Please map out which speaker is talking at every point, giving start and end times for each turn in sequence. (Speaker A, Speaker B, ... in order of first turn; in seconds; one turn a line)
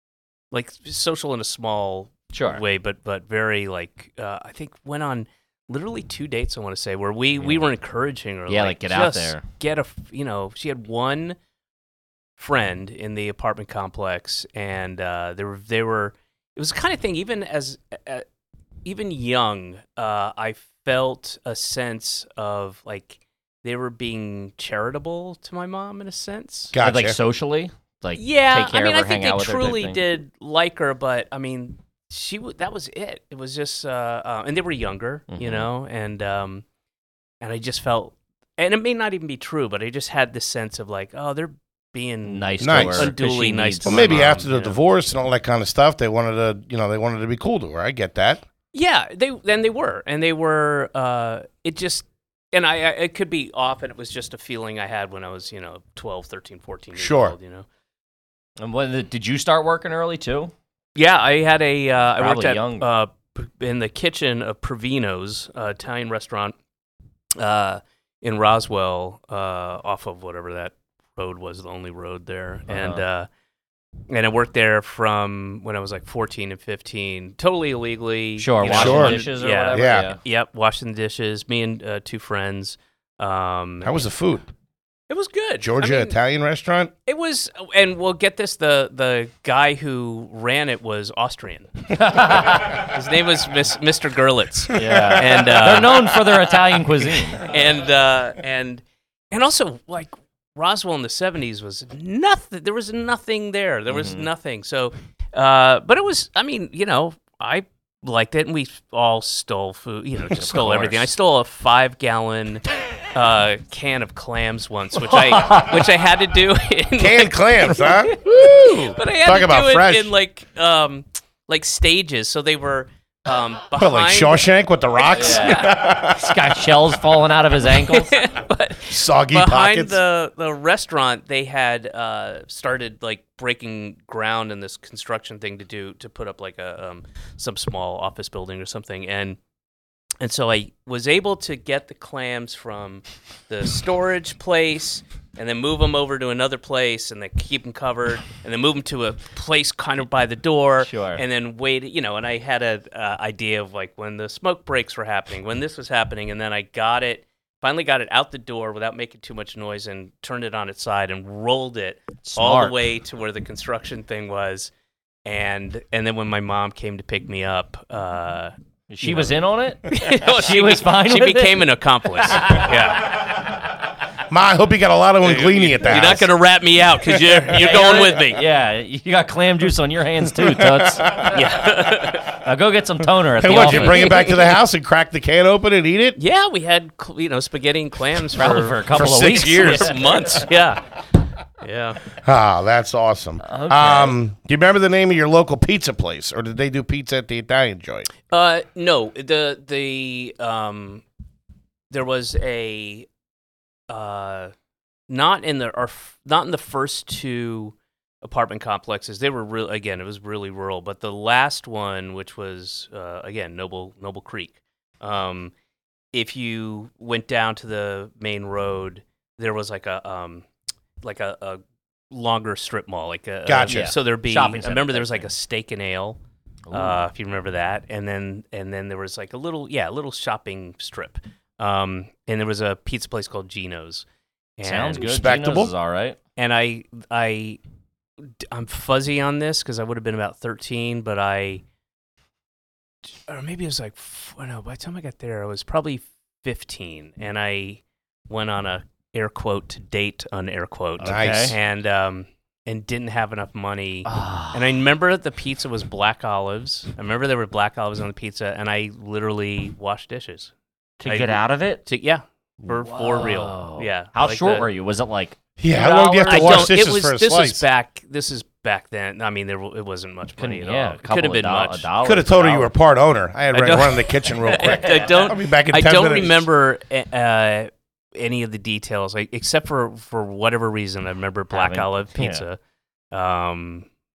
Speaker A: 0.5-11.4
Speaker B: 2.3-2.6
Speaker B: 7.4-7.7
Speaker B: 8.5-9.4
Speaker A: 12.4-18.2
Speaker A: 18.9-26.7
Speaker C: 26.7-27.2
Speaker B: 26.8-30.0
Speaker A: 28.1-36.6
Speaker B: 35.3-35.7
Speaker A: 37.4-44.8
Speaker B: 42.2-44.3
Speaker C: 42.6-43.1
Speaker C: 43.9-48.4
Speaker A: 48.7-57.7
Speaker C: 57.0-57.4
Speaker B: 58.6-60.5
Speaker A: 61.0-66.5
Speaker B: 62.2-62.9
Speaker A: 67.4-73.3
Speaker B: 72.7-73.0
Speaker A: 74.1-84.0
Speaker B: 78.4-80.2
Speaker C: 78.7-80.1
Speaker C: 83.8-84.5
Speaker A: 85.1-86.2
Speaker C: 85.6-86.9
Speaker A: 87.1-96.2
Speaker B: 92.0-92.8
Speaker B: 94.7-97.4
Speaker A: 97.4-124.5
Speaker B: 103.9-104.3
Speaker B: 110.3-111.1
Speaker B: 115.1-115.9
Speaker C: 117.0-120.1
Speaker C: 123.8-126.4
Speaker A: 125.0-126.0
Speaker B: 125.1-128.2
Speaker A: 127.8-139.4
Speaker C: 128.9-130.0
Speaker A: 140.2-164.7
Speaker B: 150.8-151.2
Speaker B: 162.2-162.8
Speaker A: 165.2-169.4
Speaker B: 168.9-173.3
Speaker A: 169.9-173.4
Speaker C: 174.3-176.3
Speaker A: 175.2-178.4
Speaker B: 177.5-184.1
Speaker C: 180.4-181.4
Speaker A: 181.3-182.4
Speaker C: 183.4-186.2
Speaker A: 183.5-184.5
Speaker A: 186.2-190.9
Speaker B: 188.3-190.0
Speaker C: 188.9-190.4
Speaker A: 191.6-192.0
Speaker C: 192.2-198.1
Speaker B: 193.4-194.2
Speaker A: 198.3-201.0
Speaker A: 201.9-203.1
Speaker A: 203.9-204.5
Speaker A: 205.1-215.5
Speaker A: 216.1-220.5
Speaker A: 221.0-226.2
Speaker C: 223.5-223.9
Speaker B: 223.7-225.3
Speaker B: 226.7-227.1
Speaker A: 226.7-234.1
Speaker A: 234.6-235.1
Speaker B: 234.6-236.2
Speaker C: 235.0-235.7
Speaker A: 236.4-237.6
Speaker A: 238.4-241.6
Speaker A: 243.3-260.5
Speaker B: 251.0-251.6
Speaker C: 251.0-251.6
Speaker B: 254.1-254.6
Speaker B: 261.0-261.8
Speaker A: 261.0-264.7
Speaker B: 262.6-266.7
Speaker C: 265.6-267.6
Speaker A: 265.7-271.9
Speaker B: 270.4-272.7
Speaker C: 272.0-276.5
Speaker A: 273.5-282.6
Speaker B: 274.5-275.3
Speaker B: 281.5-282.4
Speaker A: 283.1-283.9